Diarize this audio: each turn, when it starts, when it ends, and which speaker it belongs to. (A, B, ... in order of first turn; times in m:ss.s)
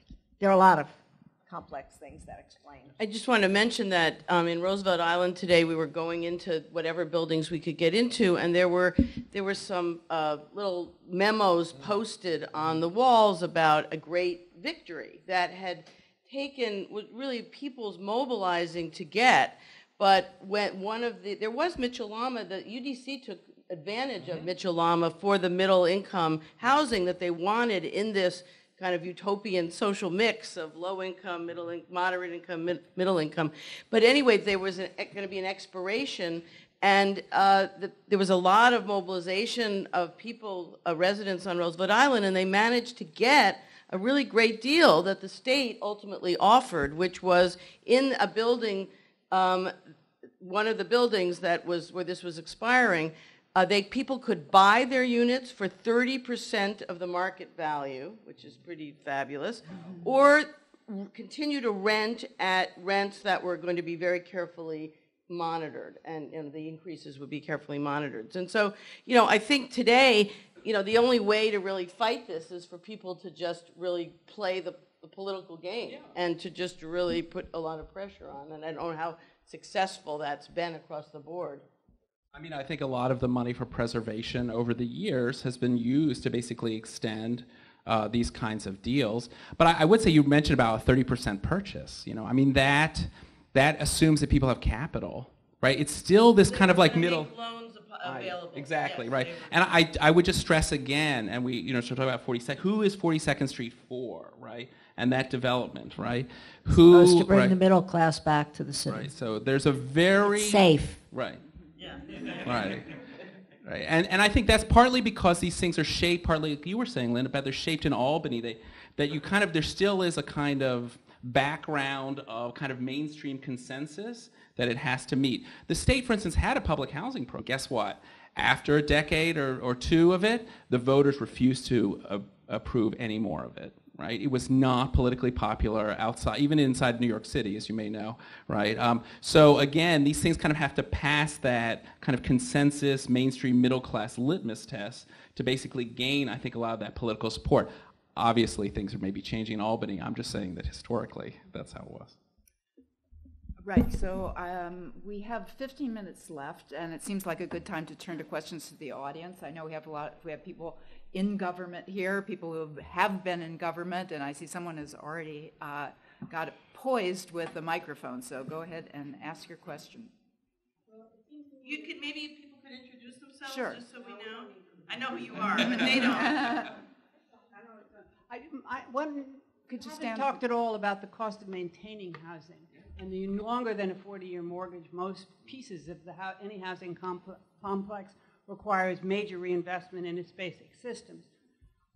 0:00.4-0:02.9 A
0:03.0-0:49.7 B
0:50.4-1:21.6 B
1:22.3-1:37.3 C
1:36.5-1:39.5 B
1:38.0-1:47.6 C
1:46.7-1:49.1 A
1:48.9-1:51.4 C
1:50.3-1:51.0 A
1:51.8-1:52.3 B
1:52.2-1:53.0 C
1:53.6-2:32.1 C
2:33.6-2:50.1 D
2:50.9-2:52.1 E
2:51.6-2:56.4 B
2:53.4-2:53.8 D
2:53.9-2:55.2 E
2:55.5-2:56.7 D
2:57.5-3:11.3 E
2:59.7-3:00.4 D